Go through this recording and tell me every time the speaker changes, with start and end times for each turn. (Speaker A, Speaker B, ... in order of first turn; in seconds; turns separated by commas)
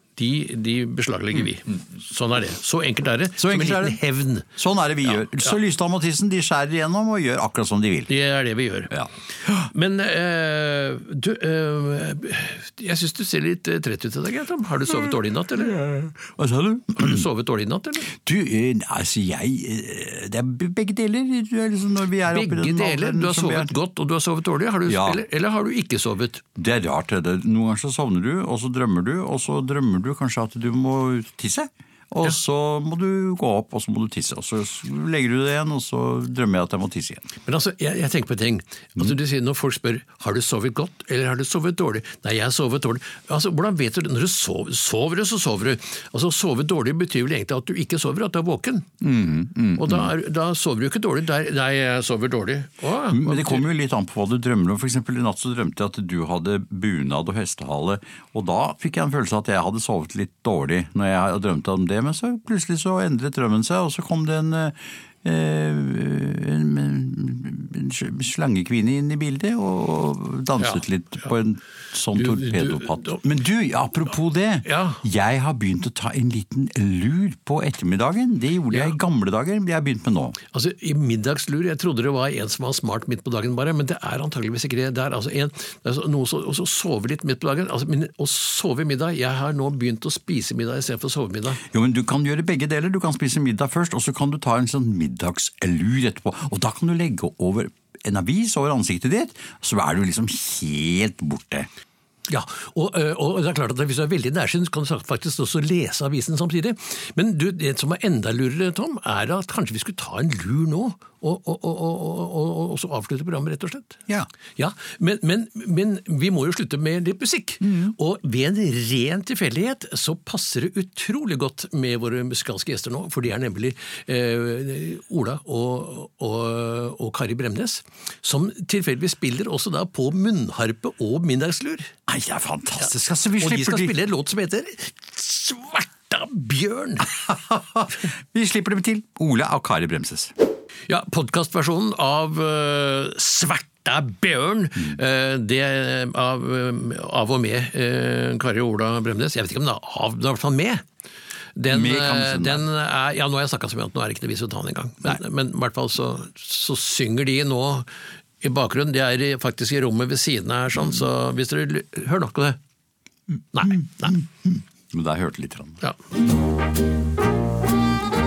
Speaker A: 0.2-4.5, Speaker B: 3.4-8.1, Speaker A: 5.1-5.5, Speaker A: 8.1-8.9, Speaker B: 8.9-9.7, Speaker A: 9.5-15.9, Speaker B: 15.7-17.2, Speaker A: 16.9-18.1, Speaker B: 18.1-23.7, Speaker A: 22.3-26.4, Speaker B: 24.9-25.2, Speaker B: 26.6-37.2, Speaker A: 37.5-48.9, Speaker B: 49.0-50.1, Speaker A: 49.7-53.6, Speaker B: 53.1-80.4, Speaker A: 70.6-70.8, Speaker A: 72.1-73.2, Speaker A: 74.6-75.0, Speaker A: 80.5-91.6, Speaker B: 91.6-101.7, Speaker A: 102.3-114.0, Speaker A: 114.6-131.9, Speaker B: 117.6-117.9, Speaker B: 132.1-133.9, Speaker A: 133.4-137.1, Speaker B: 137.0-140.3, Speaker A: 140.9-150.8, Speaker A: 151.6-157.9, Speaker B: 151.7-152.7, Speaker A: 158.4-162.6, Speaker A: 163.5-164.2, Speaker B: 163.6-165.8